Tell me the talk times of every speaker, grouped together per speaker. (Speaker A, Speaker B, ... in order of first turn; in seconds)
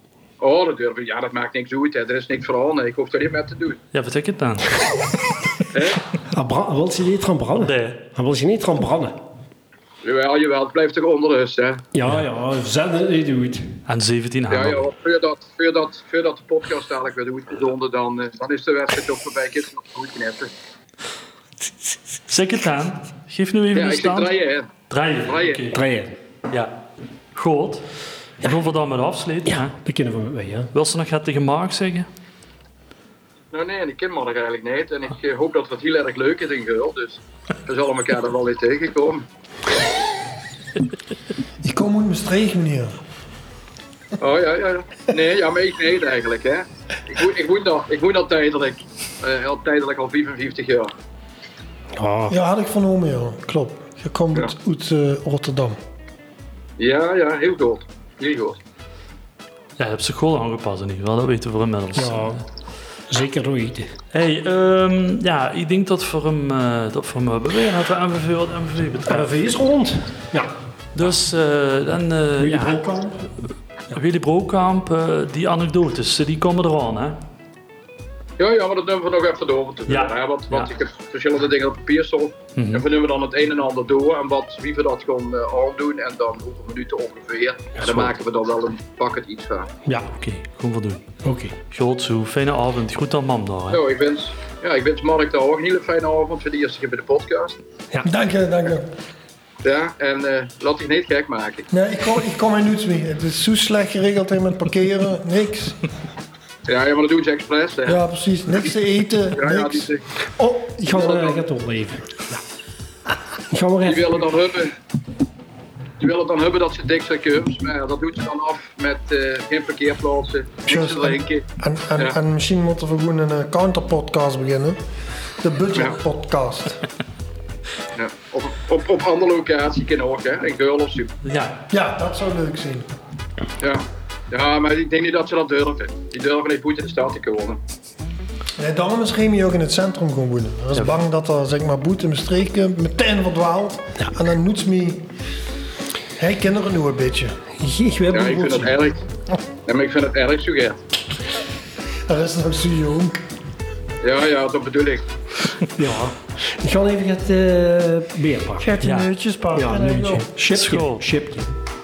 Speaker A: 0.4-3.8, 5.7-6.0, 10.0-11.8, 14.5-20.5, 23.7-24.7, 25.2-25.6, 33.5-39.2, 44.2-50.9, 56.8-58.6, 78.4-89.7, 93.7-97.6, 99.6-101.7, 106.7-108.0, 109.3-110.0, 110.9-111.4, 113.8-114.7, 116.0-122.2, 128.0-131.1, 133.6-137.6, 148.1-149.0, 149.7-150.8, 154.0-155.1
Speaker B: 3.9-4.8, 7.6-8.0, 13.8-14.9, 22.3-24.3, 24.9-25.8, 27.3-27.9, 28.4-29.7, 30.7-32.1, 59.8-62.4, 64.1-69.6, 70.9-72.9, 73.9-77.2, 79.9-80.7, 82.5-82.8, 90.1-91.1, 91.7-93.8, 131.2-131.6, 158.8-159.1, 160.4-161.1
Speaker C: 6.3-9.2, 11.9-13.8, 25.7-26.1, 29.4-30.7, 51.9-52.4, 61.9-62.4, 63.1-64.0, 69.1-70.5, 72.4-73.3, 91.2-91.5, 110.4-112.4, 113.5-114.3, 147.6-148.7, 155.8-158.8, 159.5-161.5
Speaker D: 41.6-43.0, 52.3-55.8, 98.0-98.9, 101.7-105.8, 107.8-109.9, 120.7-124.8, 125.4-126.8, 131.7-132.9, 138.6-145.1, 146.2-147.4, 152.1-153.2, 158.6-160.3